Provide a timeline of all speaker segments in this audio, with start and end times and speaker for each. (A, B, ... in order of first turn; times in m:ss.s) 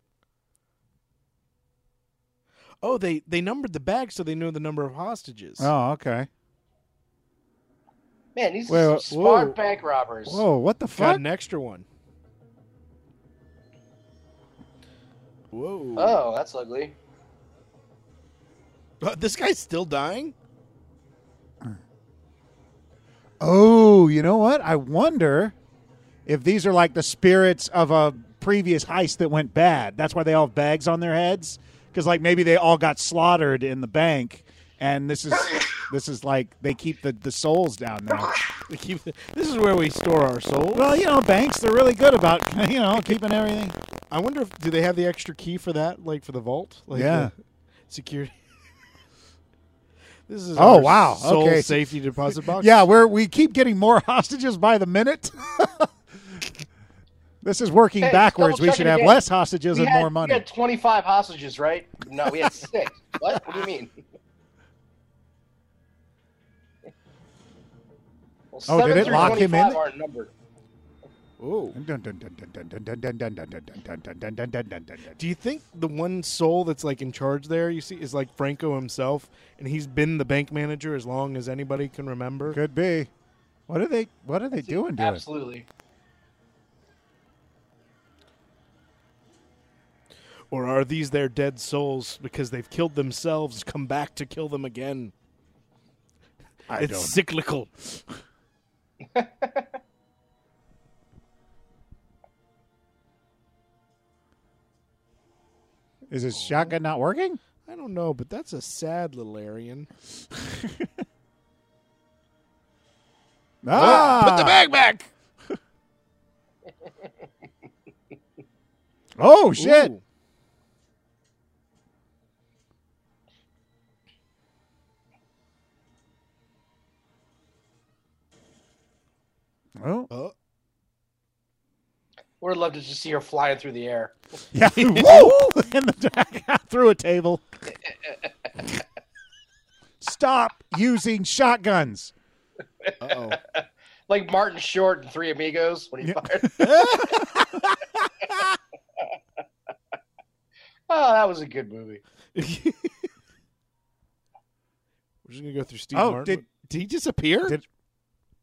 0:02.8-0:05.7 A
0:05.6-0:06.3 B
0:08.3-0:10.4 C
0:08.7-0:09.1 B
0:09.1-0:09.6 A
0:10.2-0:11.2 B
0:10.9-0:11.8 A
0:15.5-0:16.2 A
0:16.0-0:16.9 C
0:19.0-0:20.3 A
0:23.4-0:25.5 B
0:26.2-0:38.4 B
0:38.7-0:41.0 A
0:40.7-0:43.7 B
0:44.1-0:47.3 A
0:46.9-0:47.3 B
0:47.9-0:48.3 A
0:50.3-0:52.9 A
0:50.6-0:51.9 B
0:52.4-0:55.9 B
0:57.4-1:00.4 B
0:58.0-1:03.9 C
1:08.5-1:10.3 C
1:08.7-1:09.8 B
1:08.9-1:09.5 A
1:11.4-1:11.8 A
1:11.7-1:15.2 B
1:15.2-1:22.6 A
1:22.5-1:23.1 B
1:23.7-1:25.2 B
1:24.6-1:25.6 C
1:30.5-1:35.1 A
1:36.7-1:37.2 B
1:36.8-1:37.9 A
1:39.2-1:39.6 C
1:46.1-1:47.4 B
1:46.4-1:46.7 A
1:47.6-1:49.9 A
1:53.6-1:54.7 B
1:53.7-1:55.1 A
1:59.2-1:59.9 B
1:59.6-2:00.0 A
2:09.8-2:10.1 B
2:12.4-2:14.1 C
2:14.5-2:17.4 B
2:14.8-2:15.4 A
2:20.0-2:22.1 B
2:22.8-2:26.8 C
2:23.0-2:23.4 A
2:26.0-2:27.7 B
2:26.6-2:27.2 A
2:30.9-2:32.0 C
2:32.3-2:33.1 A
2:35.2-2:37.6 A
2:35.9-2:36.4 B